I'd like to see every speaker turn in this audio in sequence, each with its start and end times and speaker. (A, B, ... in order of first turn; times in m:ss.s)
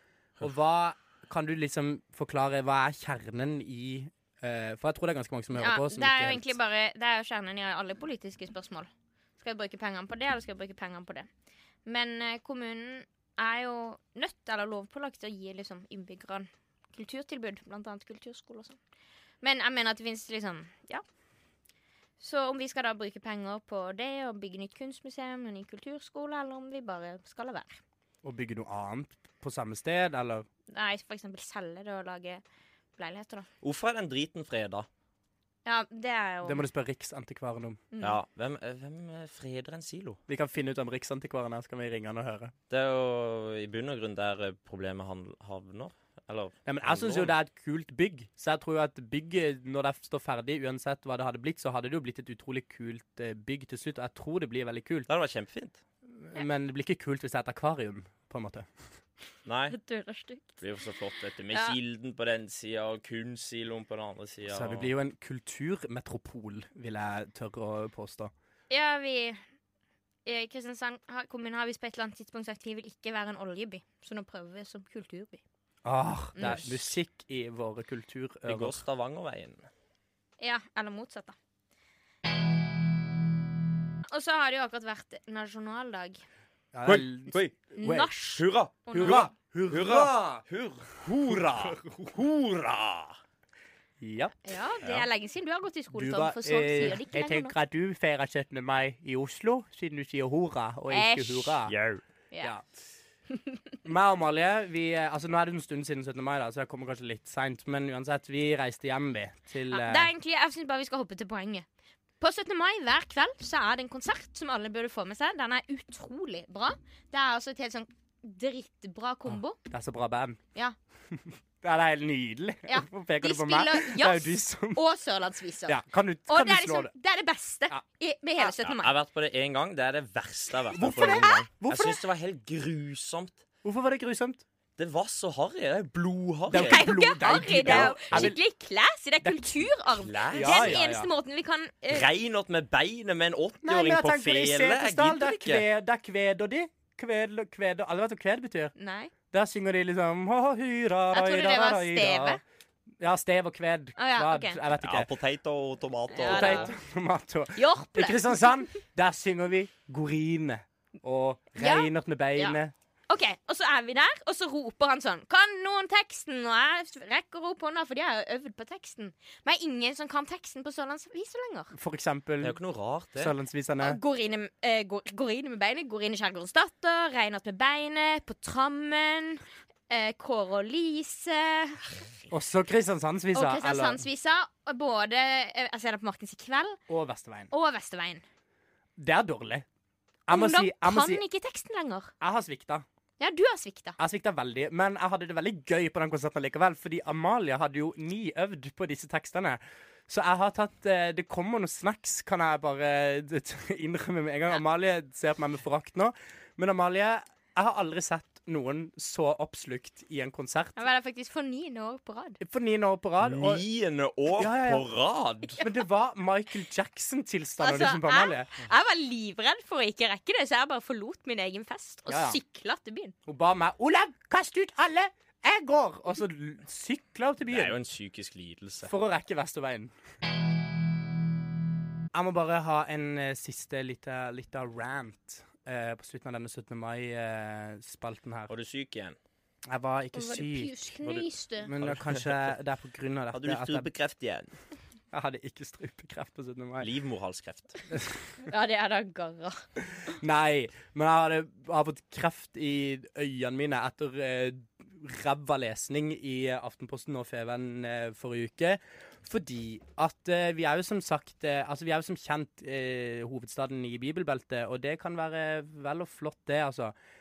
0:00.4-0:06.6 A
0:05.5-0:11.3 B
0:11.9-0:18.8 B
0:19.4-0:21.0 B
0:22.2-0:27.8 B
0:28.2-0:30.5 A
0:30.7-0:32.4 B
0:33.0-0:33.5 B
0:33.6-0:34.9 C
0:35.6-0:36.6 B
0:36.4-0:37.8 A
0:37.9-0:38.2 B
0:38.0-0:40.2 C
0:40.3-0:42.5 A
0:42.7-0:47.3 C
0:46.7-0:55.1 A
0:55.1-0:55.8 C
0:56.2-0:58.7 A
0:59.5-0:59.8 C
0:59.7-1:00.6 B
1:00.6-1:04.9 C
1:01.5-1:01.8 B
1:04.5-1:08.3 A
1:08.7-1:09.4 B
1:10.2-1:15.4 B
1:15.8-1:18.8 A
1:16.4-1:16.7 B
1:16.4-1:16.8 C
1:18.4-1:19.7 C
1:20.4-1:21.4 B
1:24.1-1:26.2 B
1:26.7-1:28.1 A
1:26.9-1:27.7 C
1:27.8-1:29.3 B
1:28.3-1:33.2 C
1:28.9-1:30.4 A
1:31.3-1:32.2 A
1:34.0-1:34.6 A
1:34.4-1:37.6 B
1:34.8-1:35.1 C
1:35.9-1:41.8 A
1:40.9-1:41.6 B
1:41.7-1:42.0 C
1:43.8-1:50.1 A
1:49.7-1:51.6 B
1:52.2-1:59.6 B
1:59.3-2:00.4 A
2:01.1-2:04.8 A
2:02.7-2:08.9 B
2:05.7-2:06.9 A
2:08.4-2:13.4 C
2:10.7-2:12.0 A
2:10.8-2:11.4 B
2:13.6-2:14.4 A
2:14.8-2:16.9 C
2:16.5-2:18.4 A
2:16.5-2:22.1 B
2:17.6-2:18.3 C
2:19.2-2:19.6 A
2:20.0-2:20.8 C
2:20.3-2:21.1 A
2:21.9-2:25.6 C
2:23.6-2:28.7 A
2:28.8-2:29.1 B
2:29.3-2:32.4 A
2:31.1-2:32.4 B
2:33.0-2:35.1 A
2:34.0-2:34.6 B
2:34.8-2:36.7 C
2:36.1-2:36.7 B
2:36.2-2:42.7 A
2:37.6-2:38.6 B
2:41.6-2:42.6 B
2:43.1-2:51.7 B
2:51.7-2:52.6 A
2:52.4-2:53.3 C
2:53.2-2:54.0 A
2:53.8-3:02.1 B
3:02.3-3:04.0 A
3:03.3-3:06.8 B
3:06.9-3:07.5 A
3:07.5-3:08.2 B
3:09.0-3:09.7 A
3:10.3-3:11.2 A
3:10.3-3:12.1 B
3:12.2-3:12.8 A
3:13.2-3:14.0 B
3:14.0-3:30.8 A
3:30.8-3:32.4 B
3:32.4-3:33.6 A
3:33.2-3:35.6 C
3:34.4-3:34.9 A
3:35.6-3:38.6 A
3:37.6-3:43.1 B
3:42.1-3:42.4 A
3:43.3-3:47.8 A
3:47.5-3:48.9 C
3:48.9-3:49.9 A
3:52.1-3:58.5 A
3:58.5-3:59.2 C
3:59.7-4:00.7 A
4:00.1-4:01.7 B
4:01.6-4:03.9 A
4:01.8-4:02.5 C
4:03.3-4:04.5 C
4:05.1-4:06.9 A
4:06.8-4:07.8 C
4:08.4-4:09.6 B
4:10.0-4:26.9 A